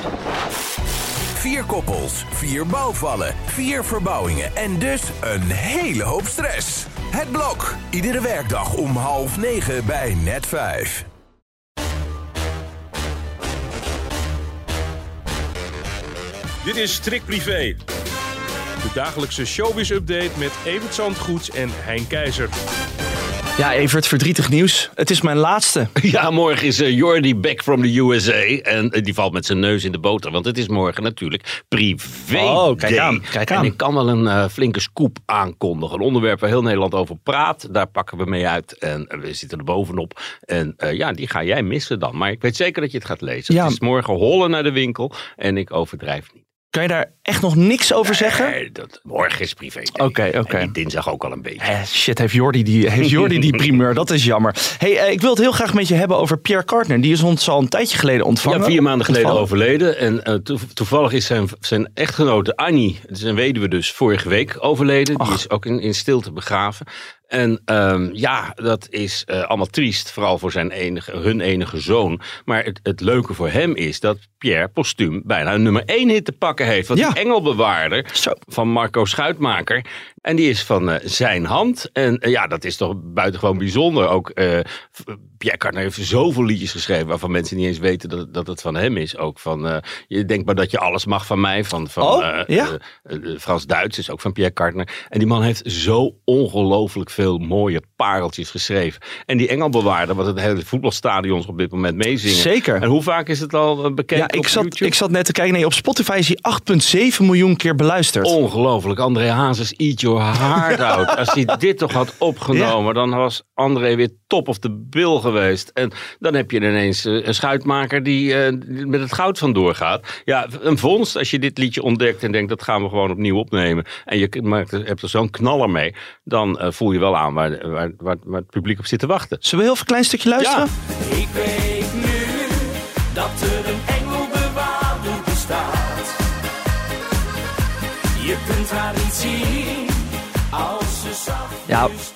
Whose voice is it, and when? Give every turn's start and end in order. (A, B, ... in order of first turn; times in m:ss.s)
0:01.3-0:11.1 A
0:16.6-0:17.8 B
0:18.8-0:22.5 B
0:23.6-0:25.9 C
0:26.0-0:46.4 D
0:32.3-0:33.7 C
0:43.5-0:43.8 C
0:46.7-0:48.5 C
0:48.0-0:51.7 D
0:49.9-0:50.7 C
0:51.6-0:59.4 C
0:58.4-1:44.9 D
1:32.0-1:32.7 C
1:42.2-1:42.9 C
1:44.1-1:48.3 C
1:48.2-2:09.4 D
1:52.5-1:52.8 C
2:09.4-2:10.7 C
2:10.4-2:10.6 D
2:11.1-2:16.1 E
2:18.1-2:21.6 E
2:21.7-2:21.9 C